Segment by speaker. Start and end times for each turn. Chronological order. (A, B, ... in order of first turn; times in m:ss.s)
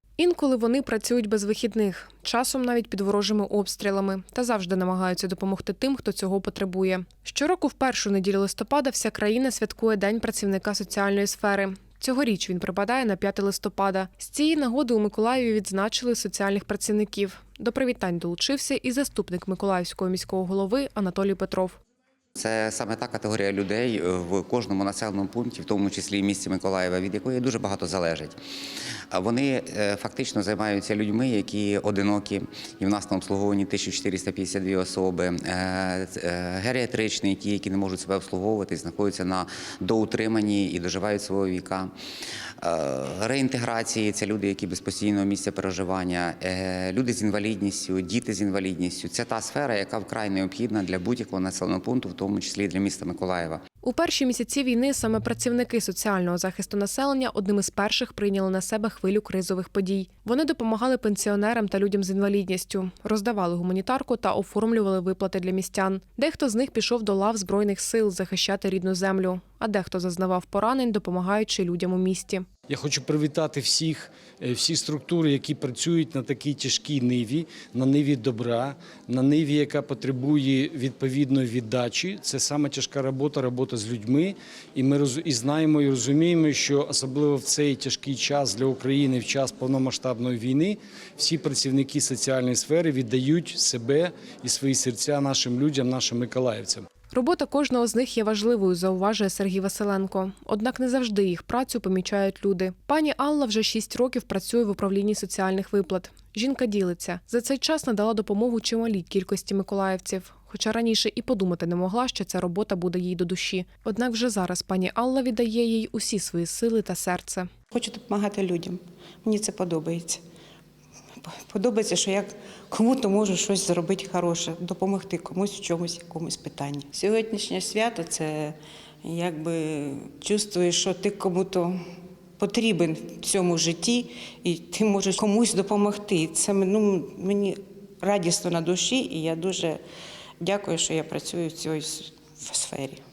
0:00.2-0:21.8 A
0:22.4-0:28.4 B
0:29.1-0:41.9 B
0:42.6-0:53.6 B
0:53.8-1:12.5 A
1:12.7-1:36.9 C
1:37.1-1:57.5 A
1:57.7-2:00.2 D
2:01.2-2:11.8 D
2:12.4-2:19.8 D
2:20.4-2:23.0 D